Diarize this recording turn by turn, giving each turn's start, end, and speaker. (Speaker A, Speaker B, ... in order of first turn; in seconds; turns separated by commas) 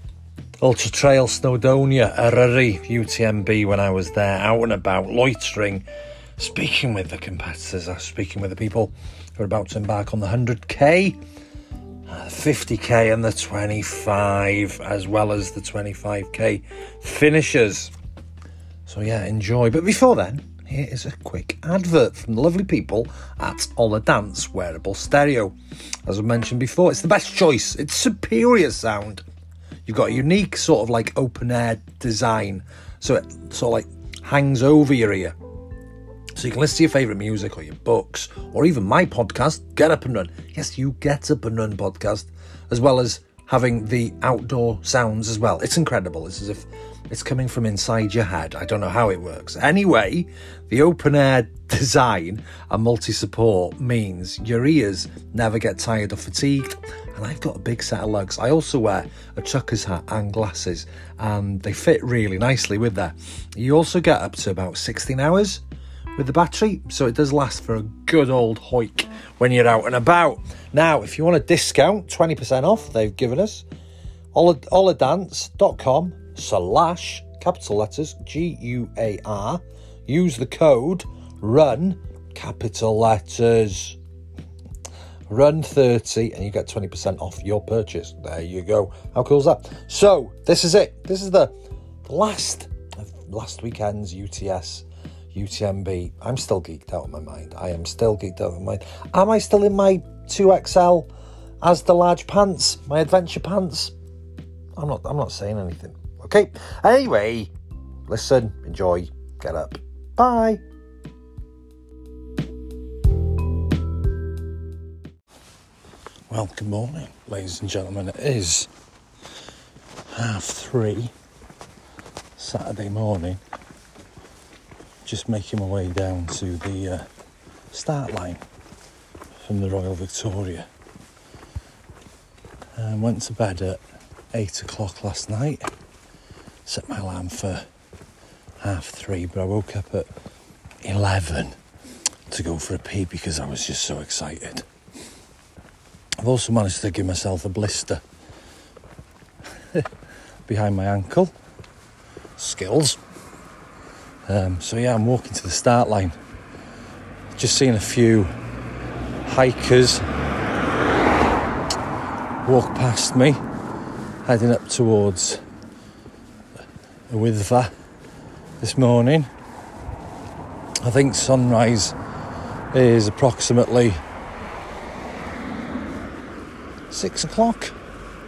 Speaker A: 0.6-5.8, Speaker A: 6.4-11.2, Speaker A: 12.1-17.9, Speaker A: 18.9-25.5, Speaker A: 26.1-29.2, Speaker A: 29.9-35.4, Speaker A: 36.3-65.6, Speaker A: 66.2-73.6, Speaker A: 74.3-84.0, Speaker A: 85.3-91.5, Speaker A: 92.0-101.1, Speaker A: 101.6-103.9, Speaker A: 104.8-107.5, Speaker A: 108.1-110.6, Speaker A: 116.3-118.7, Speaker A: 120.1-121.1, Speaker A: 122.4-123.4, Speaker A: 125.0-127.0, Speaker A: 127.7-128.4, Speaker A: 129.4-130.7, Speaker A: 132.8-133.8, Speaker A: 134.3-135.7, Speaker A: 136.7-137.6, Speaker A: 138.6-140.1, Speaker A: 140.8-141.5, Speaker A: 142.3-144.7, Speaker A: 146.2-148.0, Speaker A: 150.5-151.3, Speaker A: 152.4-153.0, Speaker A: 154.3-156.2, Speaker A: 157.3-158.3, Speaker A: 159.2-160.0, Speaker A: 162.4-163.4, Speaker A: 164.2-165.4, Speaker A: 167.1-167.7, Speaker A: 168.6-169.3, Speaker A: 170.8-171.9, Speaker A: 172.7-174.0, Speaker A: 176.9-177.7